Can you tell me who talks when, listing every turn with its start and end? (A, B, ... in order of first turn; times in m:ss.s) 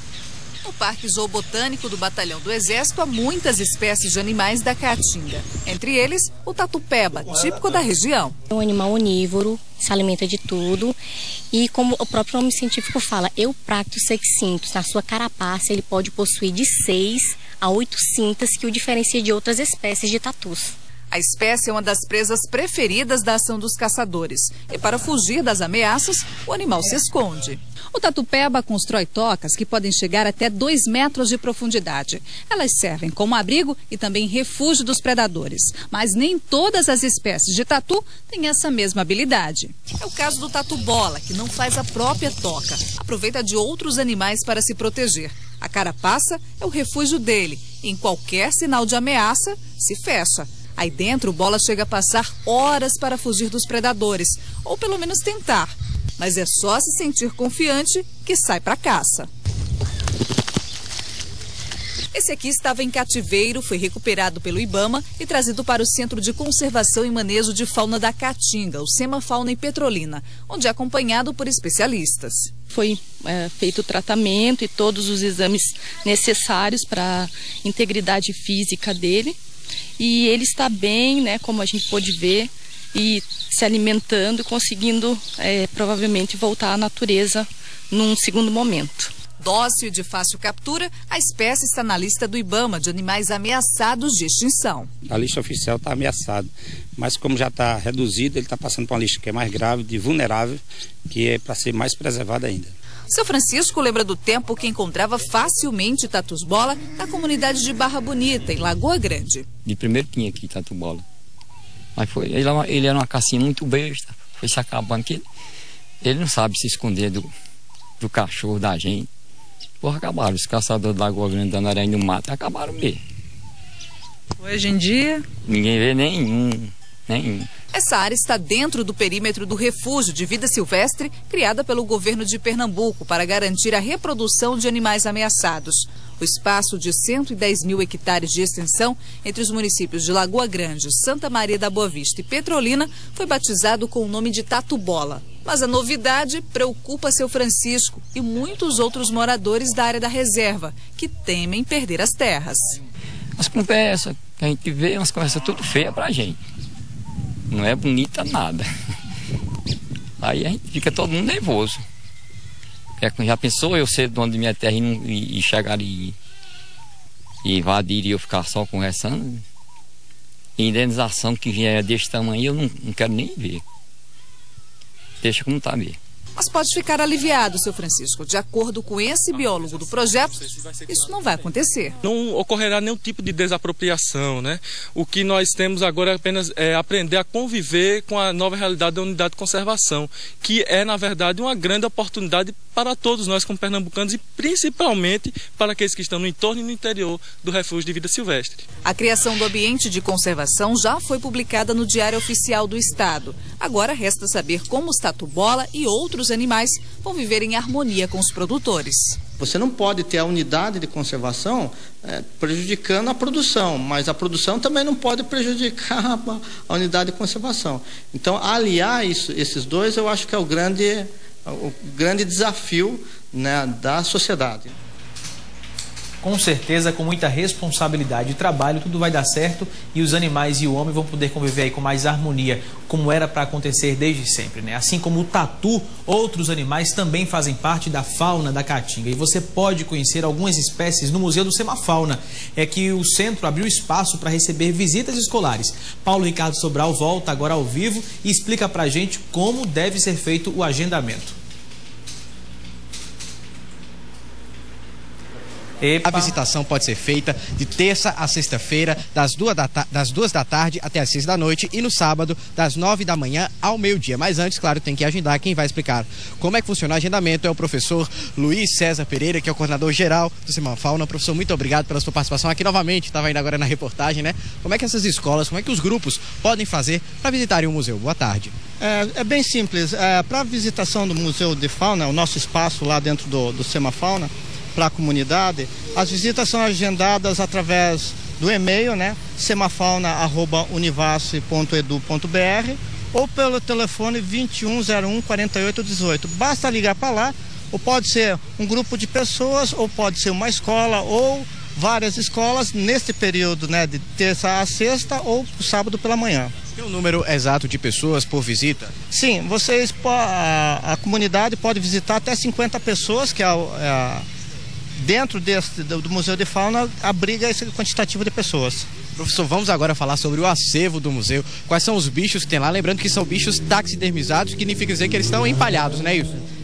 0:00.6-0:08.3 A
0:08.5-0:11.0 B
0:11.5-0:20.7 B
0:21.1-0:59.3 A
1:02.1-1:12.5 A
1:12.7-1:19.4 C
1:20.0-1:29.1 C
1:29.4-1:34.9 A
1:35.1-1:42.7 D
1:43.1-1:49.4 A
1:49.6-1:51.0 E
1:52.0-1:55.2 E
1:56.0-1:57.3 E
1:58.0-1:59.1 E
1:59.8-2:03.0 E
2:04.4-2:05.2 A
2:05.4-2:07.5 E
2:07.7-2:32.8 A
2:33.4-2:36.4 E
2:37.5-2:38.7 E
2:40.2-2:41.8 E
2:43.0-2:46.2 E
2:47.4-2:49.4 E
2:50.6-2:53.6 E
2:55.2-2:56.0 E
2:56.4-3:02.0 A
3:02.0-3:18.6 F
3:18.8-3:29.2 A
3:29.4-3:44.7 G
3:46.2-4:11.4 H
4:15.8-4:16.3 H
4:16.0-4:38.5 I
4:38.8-5:06.5 G
5:06.8-5:08.9 I
5:09.1-5:14.2 G
5:15.0-5:18.9 G
5:19.2-5:26.4 I